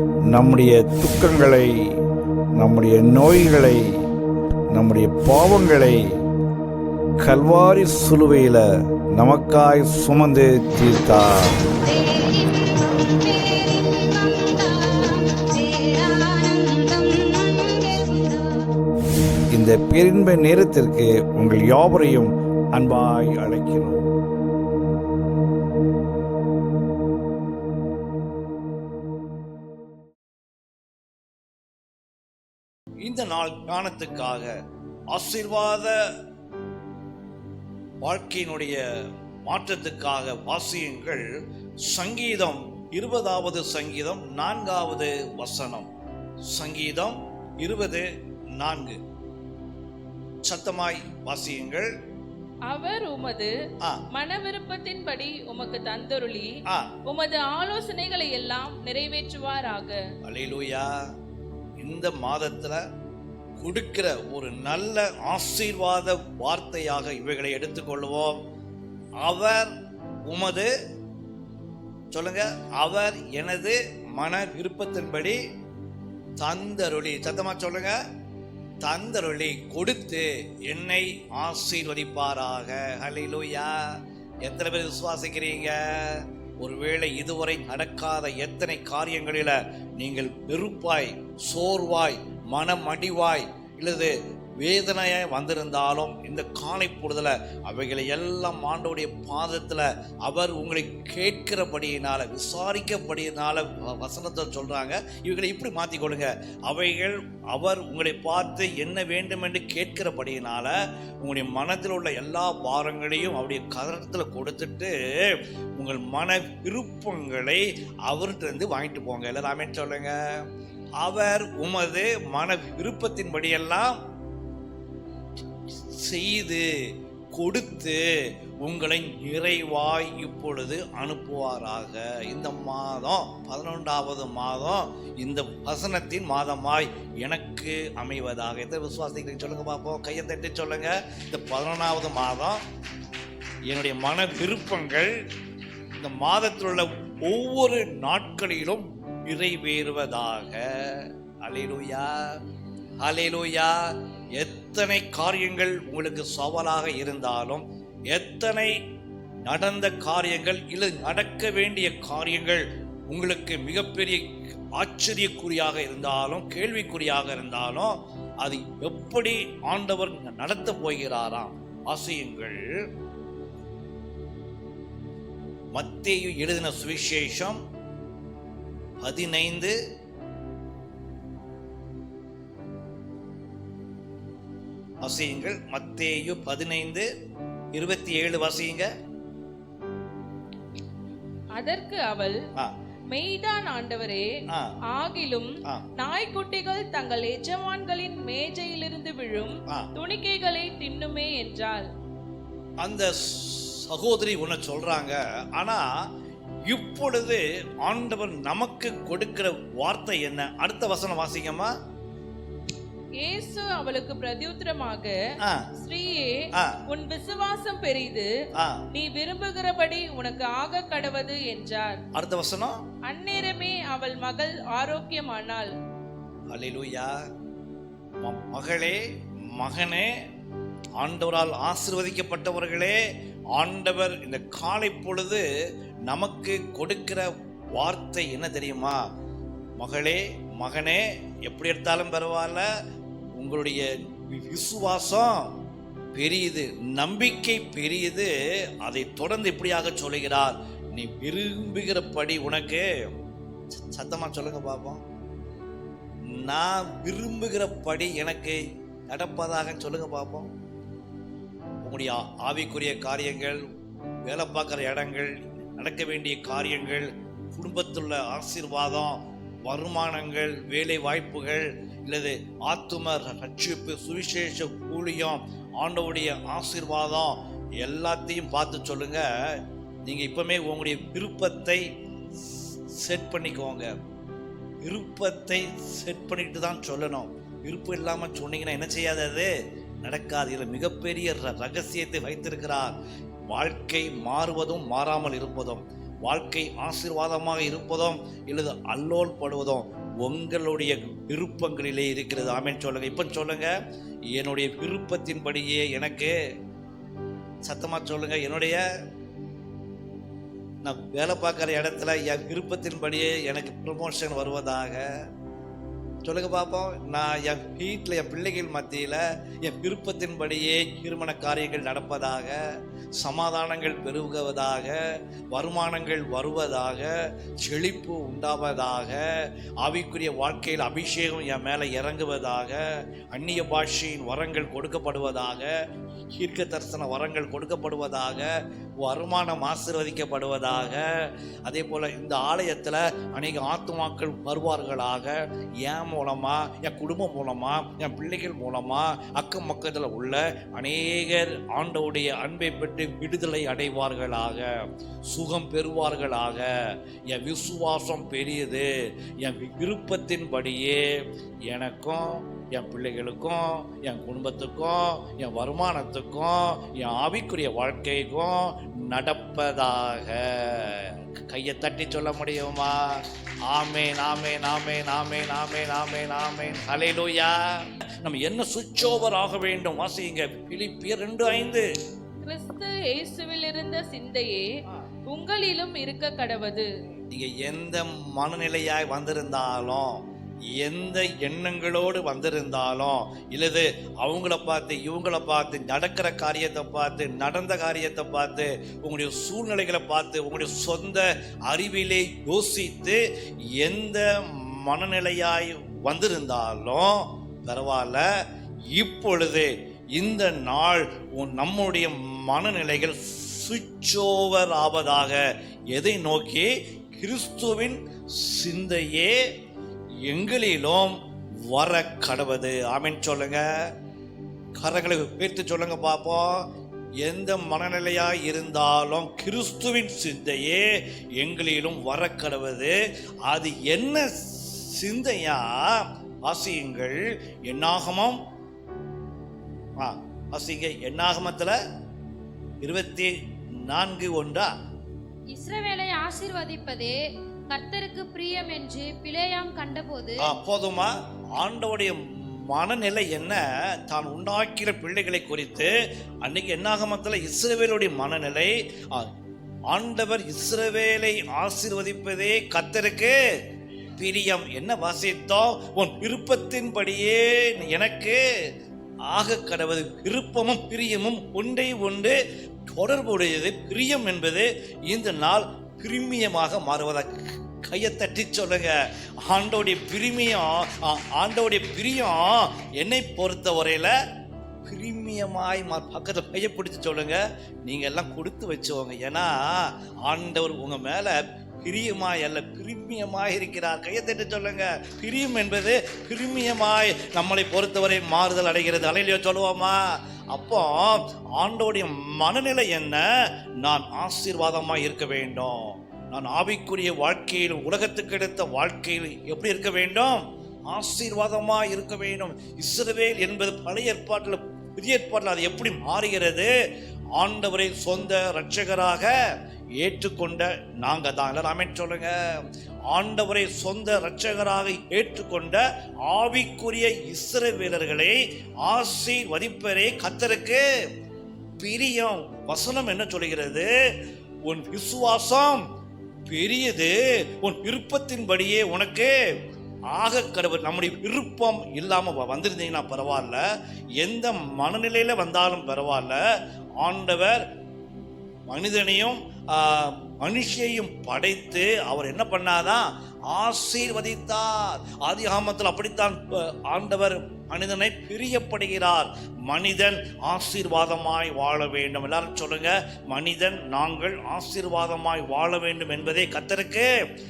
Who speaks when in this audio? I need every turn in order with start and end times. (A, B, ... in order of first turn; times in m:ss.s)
0:00.3-0:01.9 A
0:02.6-0:04.0 A
0:04.7-0:06.2 A
0:07.2-0:11.6 A
0:11.8-0:18.7 B
0:19.5-0:24.0 A
0:33.0-0:34.5 A
0:35.1-0:36.0 A
0:38.0-0:38.8 A
0:39.4-0:41.3 A
0:41.8-0:45.9 A
0:46.5-0:48.0 A
0:48.6-0:49.0 A
0:50.4-0:51.9 A
0:52.7-0:53.5 C
0:54.1-0:56.5 C
0:57.0-1:00.0 C
1:00.2-1:01.0 A
1:01.8-1:02.8 A
1:03.6-1:08.4 A
1:09.2-1:09.7 A
1:10.2-1:10.7 A
1:12.1-1:15.4 A
1:16.4-1:18.0 A
1:18.8-2:00.4 A
2:01.0-2:04.0 A
2:05.9-2:06.7 A
2:07.3-2:08.1 A
2:08.6-2:22.6 A
2:23.7-2:25.1 A
2:26.0-2:32.4 A
2:33.0-2:38.7 A
2:39.4-2:52.6 A
2:55.7-2:57.6 A
2:59.0-2:59.7 A
3:05.0-3:07.1 A
3:07.7-3:08.9 A
3:11.6-3:12.4 C
3:13.1-3:14.3 C
3:14.5-3:14.8 A
3:14.9-3:21.9 C
3:22.8-3:25.9 A
3:26.6-3:31.7 A
3:33.2-3:35.2 C
3:35.4-3:35.7 A
3:35.8-3:38.3 C
3:36.5-3:36.8 A
3:38.6-3:38.8 A
3:38.9-3:42.0 C
3:42.1-3:42.8 A
3:43.1-3:45.7 C
3:46.5-3:47.2 A
3:48.2-3:49.0 A
3:49.6-3:50.1 A
3:51.0-3:53.0 A
3:53.5-3:55.4 A
3:56.1-3:59.0 A
3:59.8-4:02.7 A
4:03.4-4:05.5 A
4:06.1-4:13.1 A
4:13.7-4:15.0 A
4:16.3-4:20.5 A
4:21.8-4:23.6 A
4:24.2-4:41.8 A
4:42.9-4:43.9 A
4:44.8-4:49.5 A
4:50.0-4:53.0 A
4:53.5-5:03.7 A
5:04.3-5:06.3 A
5:07.6-5:08.8 A
5:10.8-5:15.1 A
5:16.2-5:22.6 A
5:23.2-5:29.3 A
5:29.8-5:35.7 A
5:36.4-6:21.8 A
6:22.4-6:24.7 C
6:25.3-6:26.9 C
6:27.3-6:43.2 A
6:43.8-6:48.2 A
6:48.9-6:59.4 A
7:00.2-7:01.2 A
7:01.7-7:03.7 A
7:04.8-7:06.6 A
7:07.2-7:18.4 A
7:20.0-7:21.8 A
7:22.8-7:24.7 A
7:25.5-7:30.5 B
7:30.4-7:39.3 A
7:39.9-7:43.4 A
7:44.2-7:48.4 A
7:49.3-7:52.4 A
7:52.9-8:04.2 A
8:04.8-8:23.2 A
8:23.8-8:36.7 A
8:37.4-8:39.3 A
8:40.0-8:50.8 A
8:51.8-8:53.9 A
8:54.6-8:55.8 A
8:56.5-8:59.3 A
9:00.1-9:03.6 A
9:04.2-9:06.4 A
9:07.0-9:07.6 A
9:08.7-9:27.1 A